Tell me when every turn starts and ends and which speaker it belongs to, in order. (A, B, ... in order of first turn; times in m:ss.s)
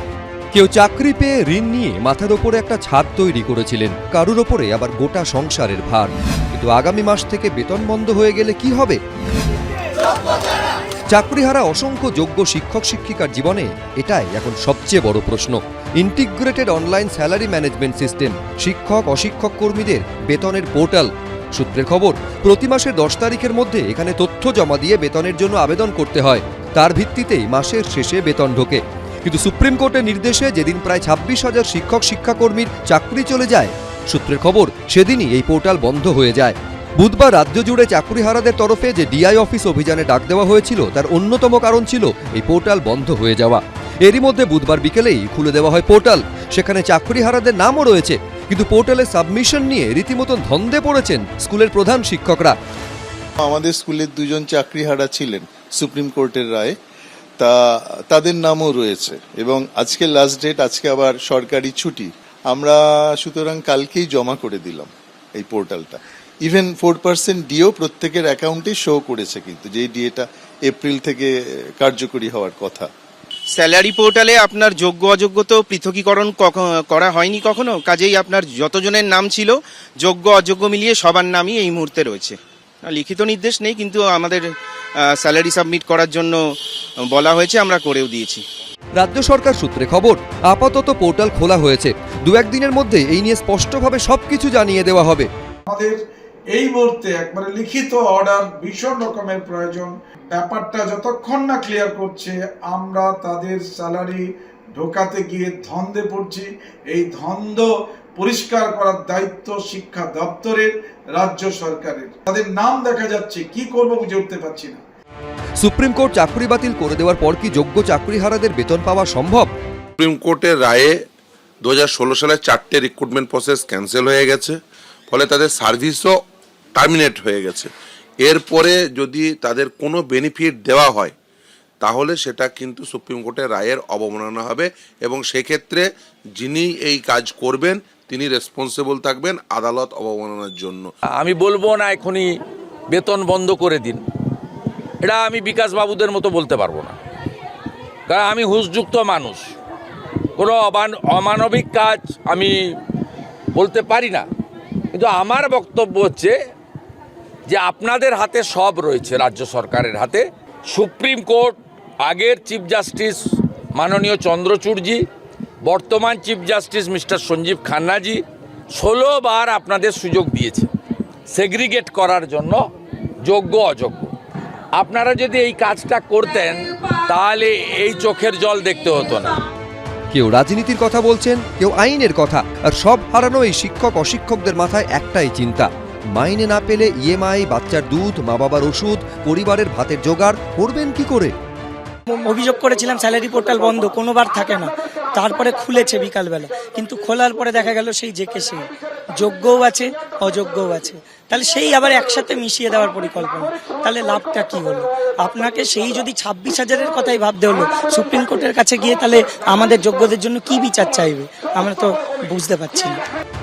0:00.5-0:09.0 A
0:11.1-0:52.6 A
0:53.4-0:56.7 B
0:57.4-1:12.9 B
1:13.5-1:24.5 C
1:25.0-1:26.4 C
1:27.0-1:28.4 C
1:29.0-1:35.3 A
1:35.6-1:54.8 D
1:55.6-1:59.5 A
2:00.0-2:00.9 E
2:01.6-2:04.6 E
2:05.1-2:06.1 E
2:06.8-2:07.7 E
2:08.2-2:11.1 E
2:11.8-2:15.8 E
2:16.4-2:20.9 E
2:21.2-2:22.3 F
2:22.9-2:24.0 F
2:25.0-2:27.0 F
2:28.1-2:29.5 F
2:30.4-2:32.6 F
2:33.5-2:34.2 F
2:34.9-2:36.3 F
2:37.5-2:43.2 F
2:43.7-2:45.0 F
2:45.6-2:48.2 F
2:48.7-2:50.7 F
2:51.3-2:52.6 F
2:53.2-2:54.1 F
2:54.8-2:59.3 F
3:00.1-3:11.3 A
3:12.1-3:18.6 G
3:19.2-3:33.0 G